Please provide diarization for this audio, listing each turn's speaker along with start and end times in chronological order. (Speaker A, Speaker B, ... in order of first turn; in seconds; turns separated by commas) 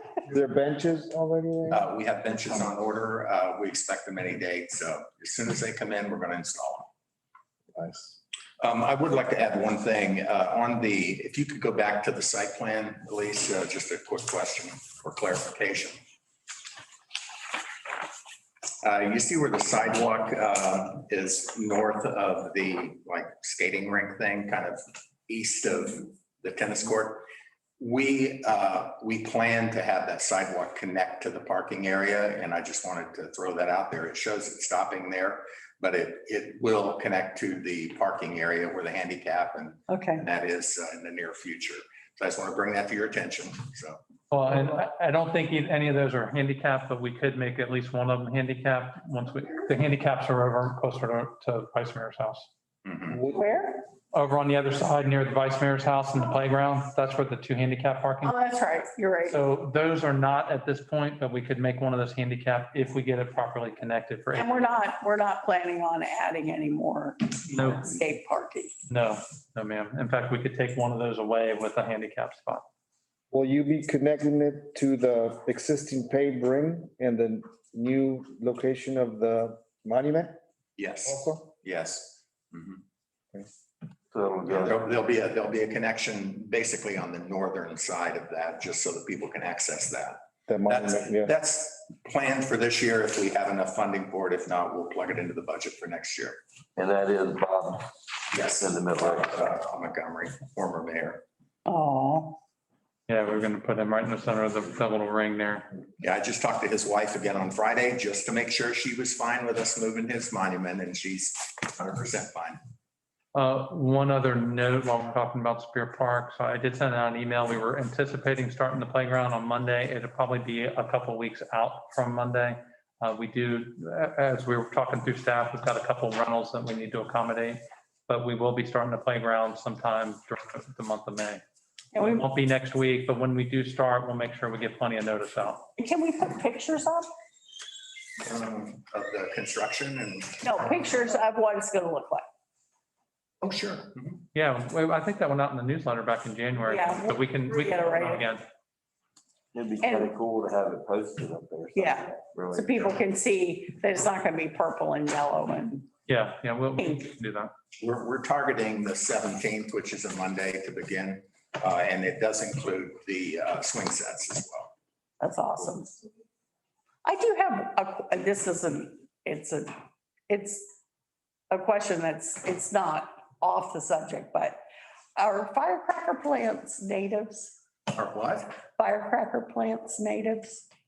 Speaker A: 0.3-1.9, Speaker B: 1.7-6.9, Speaker A: 7.8-8.2, Speaker B: 8.6-16.0, Speaker B: 18.8-27.3, Speaker B: 27.8-44.0, Speaker C: 39.9-40.2, Speaker D: 44.3-52.5, Speaker B: 52.9-53.2, Speaker A: 53.1-53.4, Speaker C: 53.3-53.9, Speaker D: 54.1-58.4, Speaker C: 58.2-59.4, Speaker D: 59.3-64.6, Speaker C: 64.3-68.7, Speaker D: 67.5-68.0, Speaker D: 68.9-72.7, Speaker A: 73.3-80.4, Speaker B: 80.8-82.8, Speaker A: 81.0-81.4, Speaker E: 84.1-84.8, Speaker B: 84.5-96.4, Speaker A: 90.5-91.3, Speaker E: 96.8-99.5, Speaker B: 98.3-101.2, Speaker C: 101.7-102.4, Speaker D: 103.1-105.7, Speaker B: 106.0-112.6, Speaker D: 113.3-131.4, Speaker C: 131.9-132.3, Speaker D: 132.0-135.6, Speaker C: 135.8-137.1, Speaker B: 138.2-140.8, Speaker C: 140.4-142.2, Speaker B: 143.4-144.2, Speaker D: 144.3-148.4, Speaker C: 146.7-148.2, Speaker E: 149.5-153.0, Speaker C: 149.8-150.1, Speaker C: 151.7-155.9, Speaker D: 156.1-157.5, Speaker C: 156.8-157.1, Speaker B: 157.8-164.7, Speaker C: 165.2-166.0, Speaker C: 167.1-169.7, Speaker C: 170.3-170.7, Speaker C: 171.5-174.6, Speaker C: 175.2-177.6, Speaker B: 177.9-178.6, Speaker C: 178.8-180.6